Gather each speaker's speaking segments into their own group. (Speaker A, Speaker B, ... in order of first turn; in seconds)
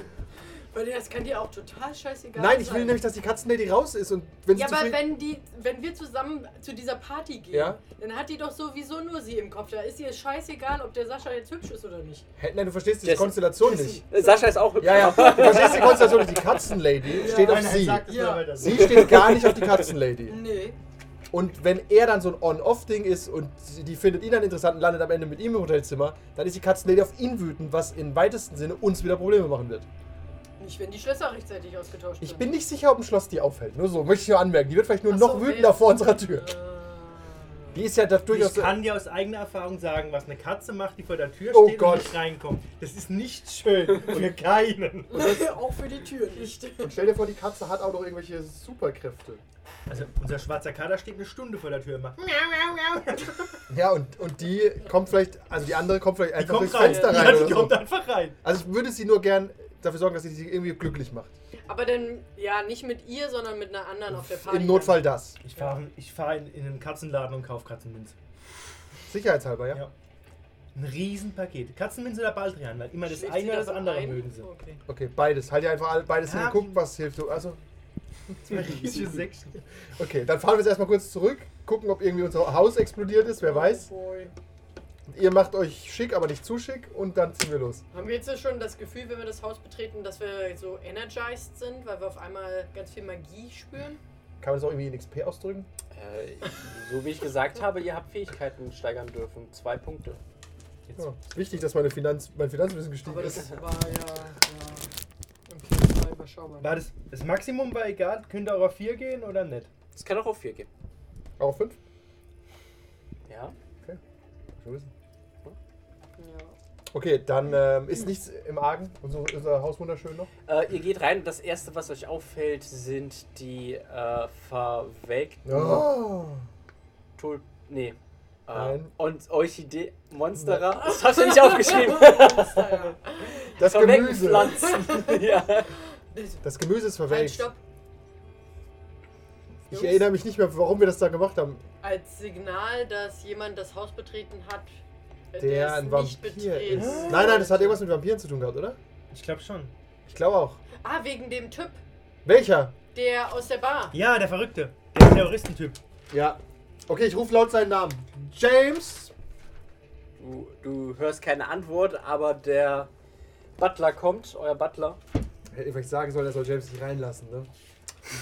Speaker A: 0.7-3.0, 4.5-12.3, 13.6-16.1, 17.1-18.9, 20.3-20.8, 30.6-32.5, 35.1-37.8, 45.1-47.1, 56.8-57.4, 61.7-65.8, 73.0-74.8, 83.4-84.3, 87.9-94.0, 103.0-104.9, 105.5-106.8, 116.2-116.6, 130.8-133.6, 134.3-136.4, 137.1-137.6, 139.7-140.1, 141.8-144.7, 145.3-147.8, 150.8-151.8, 152.9-154.0
Speaker B: 2.4-5.1, 7.5-7.8, 12.4-14.1, 14.8-20.4, 21.3-29.9, 32.2-36.5, 37.7-38.8, 41.5-42.2, 45.1-45.5, 46.8-49.4, 53.7-57.8, 58.4-61.4, 64.1-65.4, 69.1-69.9, 74.9-77.6, 78.3-79.2, 80.0-83.9, 85.1-87.8, 94.4-95.7, 101.0-103.5, 111.4-111.8, 114.5-114.9, 116.9-120.3, 125.4-126.5, 128.5-128.9, 133.6-134.6, 136.4-137.5, 139.7-141.6, 145.4-148.8, 150.1-150.6, 152.2-152.8, 156.1-159.1, 165.5-167.5
Speaker C: 13.0-13.5, 14.1-16.2, 19.2-19.5, 95.9-100.2, 109.9-110.7, 113.3-113.5, 120.5-125.9, 127.2-132.9, 133.6-135.7, 160.2-162.9, 163.6-165.0
Speaker D: 15.8-16.1, 17.1-19.2, 38.3-45.2, 49.9-53.6, 56.4-58.4, 65.4-68.2, 70.7-74.5, 76.2-76.8, 78.5-79.6, 106.6-109.7, 146.8-147.5, 149.1-149.7, 153.9-155.8